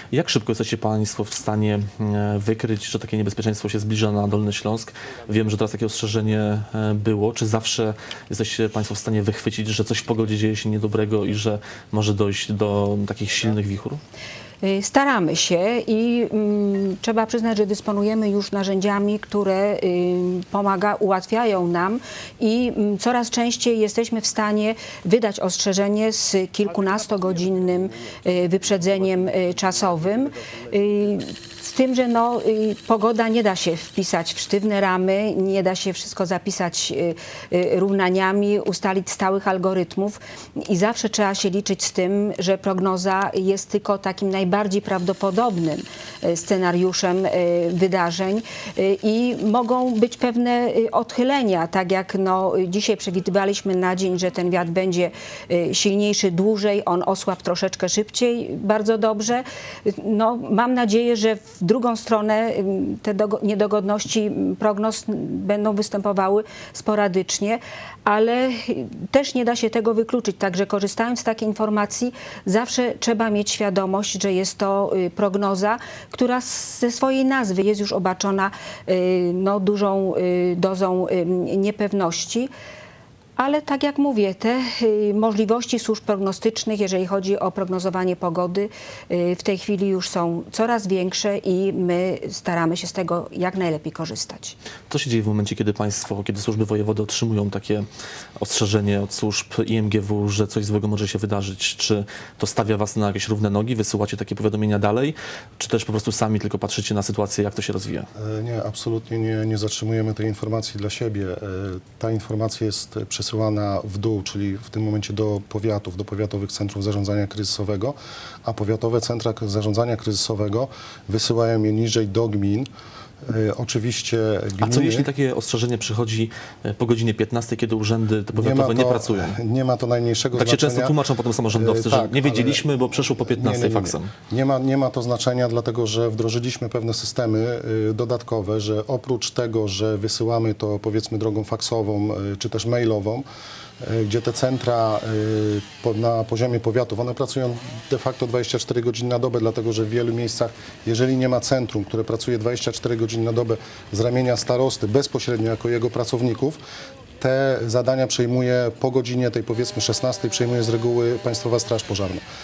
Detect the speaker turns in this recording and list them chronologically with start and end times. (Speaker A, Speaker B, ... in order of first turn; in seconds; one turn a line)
Speaker A: 0.1-14.0
Speaker B: 14.6-82.5
Speaker B: 83.4-94.6
Speaker A: 94.9-97.9
Speaker A: 98.4-108.1
Speaker C: 108.2-122.7
Speaker C: 123.3-125.1
Speaker A: 124.6-129.4
Speaker C: 128.3-131.0
Speaker A: 130.3-134.1
Speaker C: 131.5-143.3
Speaker C: 143.8-156.6
Speaker C: 157.2-162.2